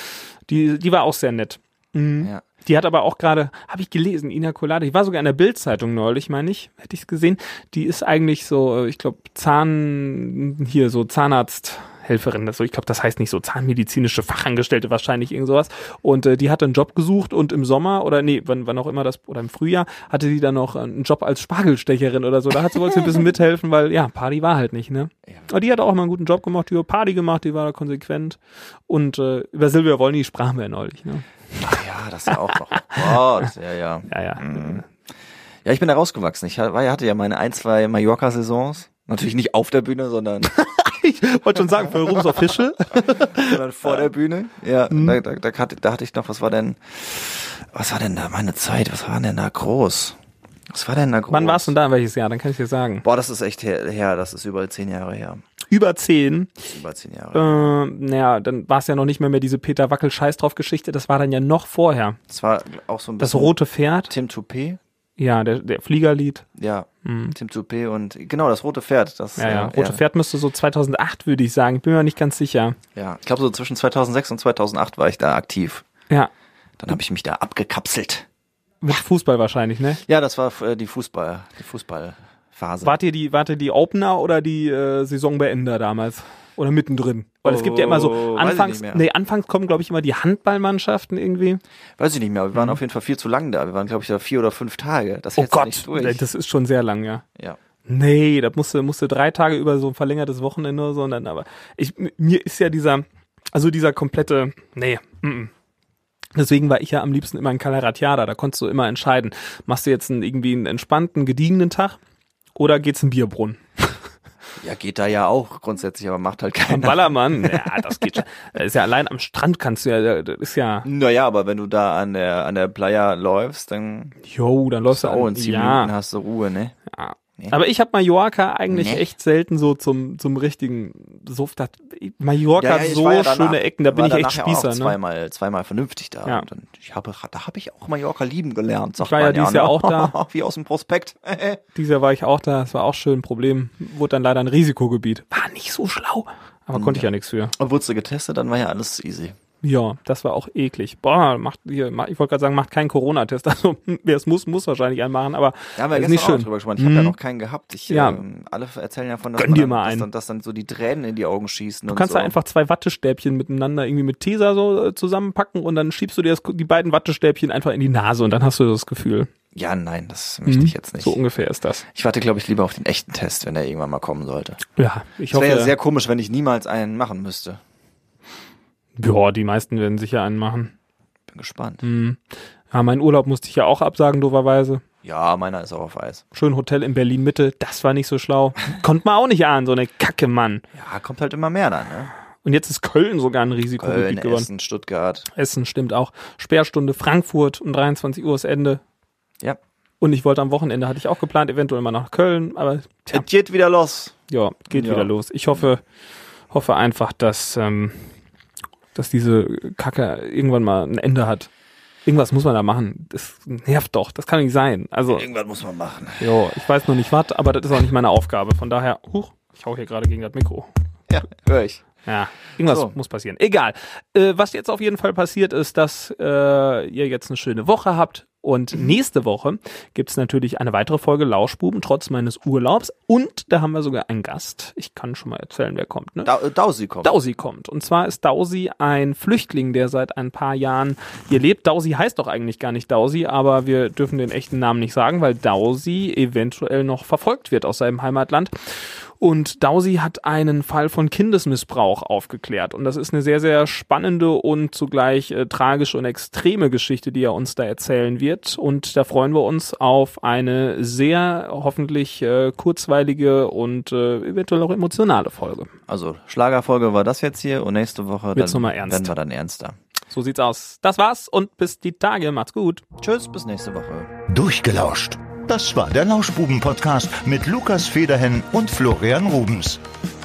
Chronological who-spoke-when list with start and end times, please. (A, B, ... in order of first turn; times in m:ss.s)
0:00.5-0:31.8 A
0:31.6-0:34.8 B
0:32.3-0:33.2 A
0:34.1-0:34.8 A
0:35.6-0:40.5 B
0:40.5-0:43.6 A
0:41.9-0:50.2 B
0:44.9-0:45.2 A
0:50.7-0:51.7 B
0:51.3-0:53.0 A
0:53.0-0:55.4 B
0:55.7-0:56.7 A
0:56.6-0:57.7 B
0:57.3-1:02.2 A
1:02.3-1:03.5 B
1:03.2-1:04.1 A
1:04.1-1:04.8 B
1:05.2-1:06.4 A
1:06.6-1:10.0 B
1:07.0-1:07.4 A
1:09.4-1:12.8 A
1:13.0-1:15.8 B
1:16.8-1:18.3 B
1:18.8-1:20.0 A
1:20.1-1:23.0 B
1:22.8-1:31.6 A
1:27.4-1:29.0 B
1:32.0-1:36.2 B
1:35.4-1:37.2 A
1:37.9-1:45.5 A
1:46.4-1:52.0 A
1:52.6-1:54.0 A
1:54.6-1:57.9 B
1:56.7-2:00.9 A
2:00.8-2:04.2 B
2:04.2-2:05.9 A
2:04.9-2:06.8 B
2:06.9-2:15.0 A
2:08.7-2:09.1 B
2:12.6-2:21.6 B
2:19.0-2:20.1 A
2:21.8-2:27.5 A
2:26.7-2:29.4 B
2:29.6-2:37.1 A
2:35.8-2:42.4 B
2:37.9-2:38.2 A
2:39.4-2:40.1 A
2:41.9-2:49.3 A
2:49.5-2:51.2 B
2:50.5-2:51.8 A
2:51.9-2:54.6 B
2:54.8-2:55.7 A
2:55.3-2:57.6 B
2:59.0-3:00.7 A
3:01.3-3:01.8 B
3:01.8-3:04.8 A
3:05.0-3:06.2 B
3:06.3-3:10.6 A
3:10.8-3:12.1 B
3:12.4-3:14.5 A
3:13.8-3:15.3 B
3:15.3-3:18.8 A
3:20.0-3:23.2 A
3:23.1-3:24.2 B
3:24.3-3:25.8 A
3:24.7-3:25.1 B
3:26.5-3:28.1 A
3:29.0-3:31.5 A
3:32.1-3:35.2 A
3:35.1-3:36.3 B
3:36.2-3:40.7 A
3:41.1-3:41.8 B
3:42.0-3:56.3 A
3:42.6-3:42.9 B
3:56.2-3:57.1 B
3:57.0-4:08.5 A
4:09.2-4:25.7 A
4:25.9-4:29.8 B
4:28.4-4:29.1 A
4:30.1-4:32.8 A
4:33.0-4:34.1 B
4:34.3-4:39.8 C